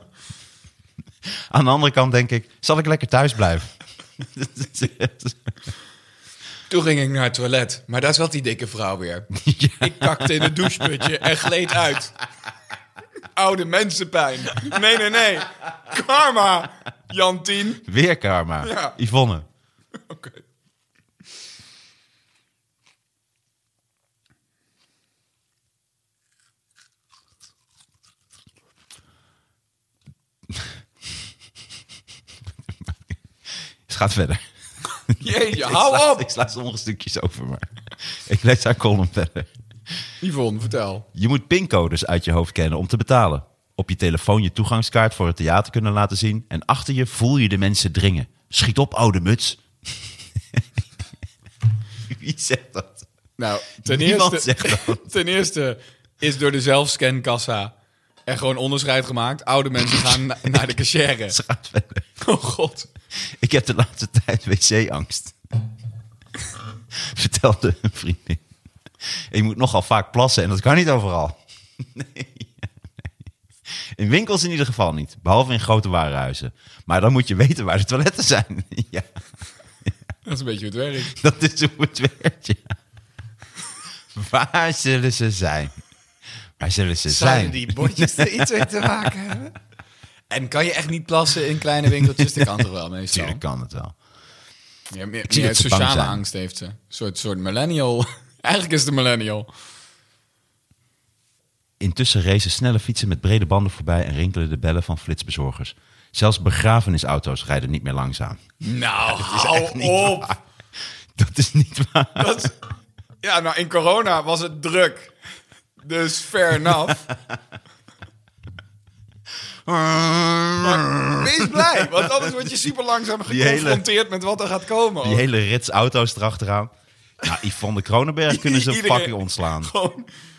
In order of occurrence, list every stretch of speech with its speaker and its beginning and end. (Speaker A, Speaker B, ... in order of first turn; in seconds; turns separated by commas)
Speaker A: 1.3-5.4, Speaker B: 6.7-12.1, Speaker A: 9.3-11.1, Speaker B: 13.3-17.9, Speaker A: 17.9-19.4, Speaker B: 18.6-18.9, Speaker B: 20.1-20.4, Speaker A: 32.8-33.1, Speaker A: 33.9-34.4, Speaker A: 35.1-39.5, Speaker B: 35.1-36.2, Speaker B: 40.2-41.0, Speaker A: 41.1-50.0, Speaker A: 52.1-53.0, Speaker B: 53.4-57.7, Speaker A: 53.8-55.0, Speaker B: 58.3-61.4, Speaker A: 61.3-62.0, Speaker B: 62.2-62.9, Speaker A: 63.2-65.3, Speaker A: 66.9-68.4, Speaker A: 69.3-72.7, Speaker A: 73.9-79.1, Speaker B: 80.2-81.1, Speaker A: 81.1-82.7, Speaker A: 84.1-85.8, Speaker A: 86.6-88.8, Speaker B: 87.1-89.5, Speaker B: 90.3-93.4, Speaker A: 92.0-93.9, Speaker B: 94.9-99.5, Speaker A: 95.3-96.2, Speaker A: 101.8-108.4, Speaker B: 108.6-110.4, Speaker A: 109.1-110.3, Speaker A: 111.1-112.4, Speaker B: 112.2-112.5, Speaker B: 113.2-115.1, Speaker B: 115.8-117.0, Speaker A: 116.7-117.3, Speaker A: 119.7-122.7, Speaker B: 120.6-125.2, Speaker A: 123.3-123.8, Speaker A: 125.0-126.7, Speaker A: 127.2-129.7, Speaker B: 128.3-130.1